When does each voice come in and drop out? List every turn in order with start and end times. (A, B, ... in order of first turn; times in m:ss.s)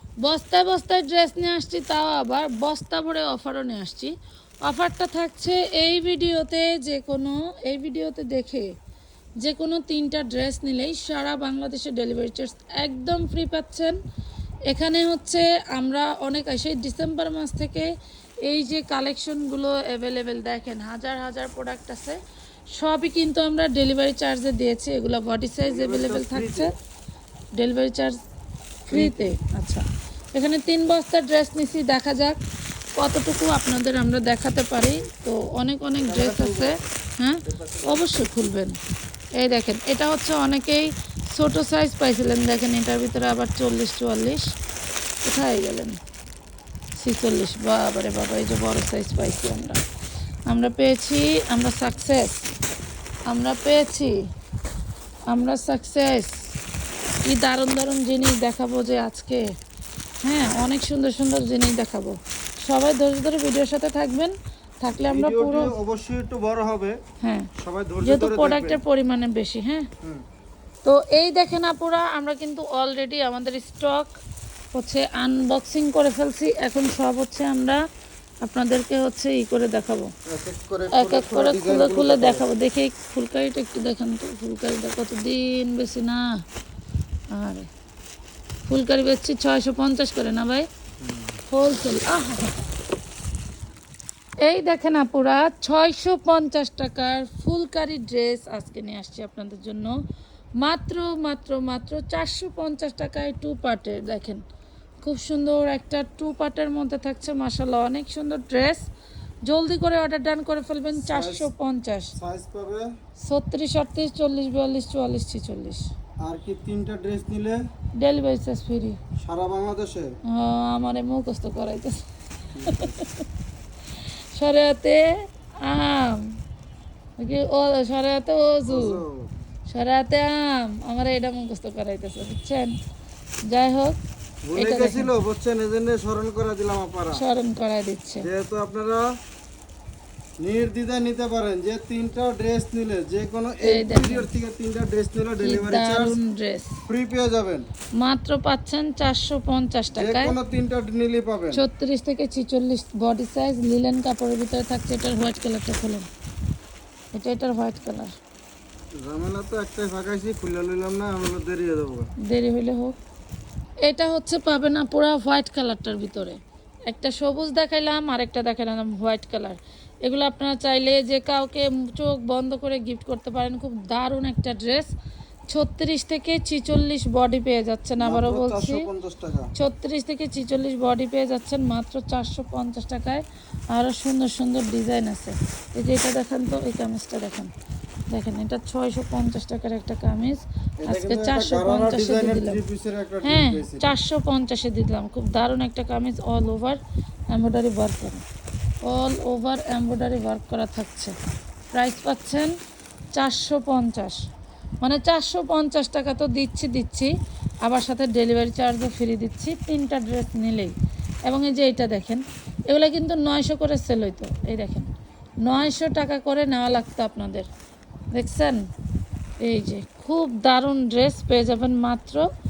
0:00.2-0:08.7 A
0:09.4-0:14.0 A
0:14.7-0:17.9 A
0:18.4-0:22.2 A
0:22.7-0:26.7 A
0:25.7-0:26.7 B
0:27.6-0:28.2 A
0:28.9-0:32.4 A
0:28.9-0:29.3 B
0:33.0-0:38.8 A
0:36.0-0:36.8 B
0:37.4-0:38.0 B
0:39.4-0:44.5 A
0:45.2-0:46.0 A
0:47.0-0:49.8 A
0:50.5-0:52.5 A
0:53.3-0:54.2 A
0:55.3-0:56.5 A
0:57.2-0:59.5 A
1:00.2-1:05.7 A
1:05.0-1:07.0 B
1:07.2-1:07.5 A
1:07.6-1:08.8 B
1:08.0-1:09.9 A
1:10.8-1:14.2 A
1:14.7-1:17.8 A
1:18.4-1:20.1 A
1:20.3-1:22.4 B
1:20.9-1:26.4 A
1:27.3-1:27.7 A
1:28.7-1:30.7 A
1:31.0-1:31.4 B
1:31.5-1:32.6 A
1:34.4-1:40.0 A
1:40.6-1:44.4 A
1:45.0-1:48.9 A
1:49.4-1:52.1 A
1:51.0-1:51.5 B
1:52.2-1:52.9 B
1:53.2-1:55.9 A
1:56.2-1:57.6 B
1:58.0-1:59.0 A
1:59.2-2:00.2 B
2:00.3-2:02.0 A
2:02.6-2:03.0 B
2:02.6-2:03.3 A
2:03.9-2:06.4 A
2:07.2-2:09.0 A
2:08.7-2:09.3 B
2:09.7-2:12.8 A
2:13.5-2:14.0 A
2:14.4-2:17.2 B
2:14.6-2:15.1 A
2:17.1-2:18.3 A
2:18.2-2:19.1 B
2:20.4-2:26.2 B
2:23.6-2:24.3 A
2:25.4-2:26.8 A
2:26.9-2:27.7 B
2:28.0-2:30.4 A
2:29.9-2:31.6 B
2:31.5-2:36.1 A
2:37.1-2:38.1 A
2:39.0-2:42.1 B
2:42.2-2:43.0 A
2:43.8-2:54.9 A
2:55.5-2:58.9 A
2:58.0-2:59.5 B
2:59.6-3:07.5 A
3:08.1-3:12.6 A
3:10.8-3:14.0 B
3:13.2-3:16.8 A
3:17.3-3:18.2 A
3:18.8-3:21.2 A
3:21.7-3:22.6 A
3:23.1-3:24.2 A
3:24.8-3:27.1 A
3:27.6-3:30.7 A
3:31.3-3:34.9 A
3:35.4-3:37.5 A
3:38.1-3:38.6 A
3:39.4-3:42.2 A